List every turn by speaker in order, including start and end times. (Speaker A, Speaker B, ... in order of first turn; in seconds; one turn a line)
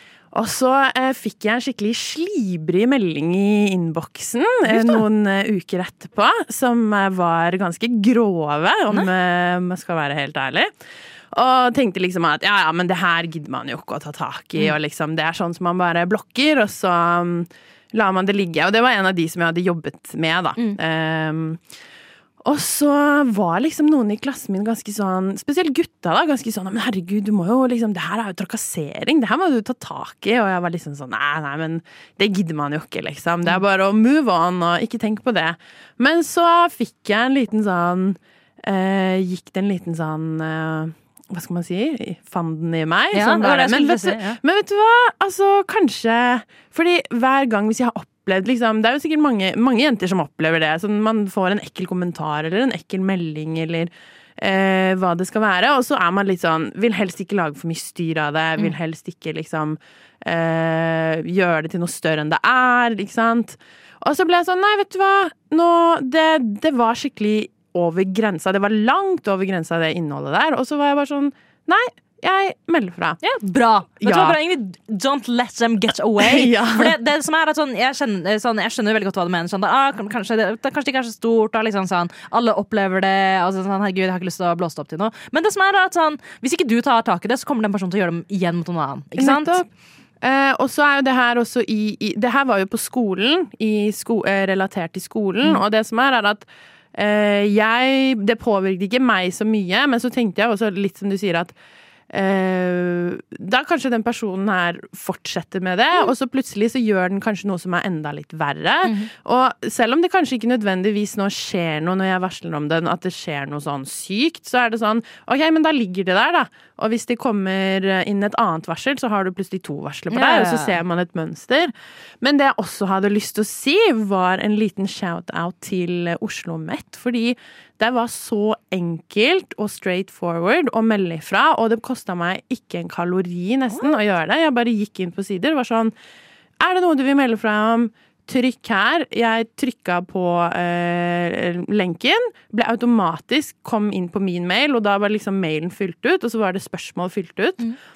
Speaker A: 0.3-10.7
Speaker B: 4.7-5.0
Speaker A: 11.3-21.6
Speaker A: 22.4-73.2
Speaker B: 43.1-44.4
Speaker B: 73.2-89.6
Speaker A: 74.0-74.4
Speaker A: 76.2-77.0
Speaker A: 89.2-89.7
Speaker A: 90.2-101.5
Speaker A: 102.1-135.9
Speaker B: 120.1-120.8
Speaker A: 136.6-147.7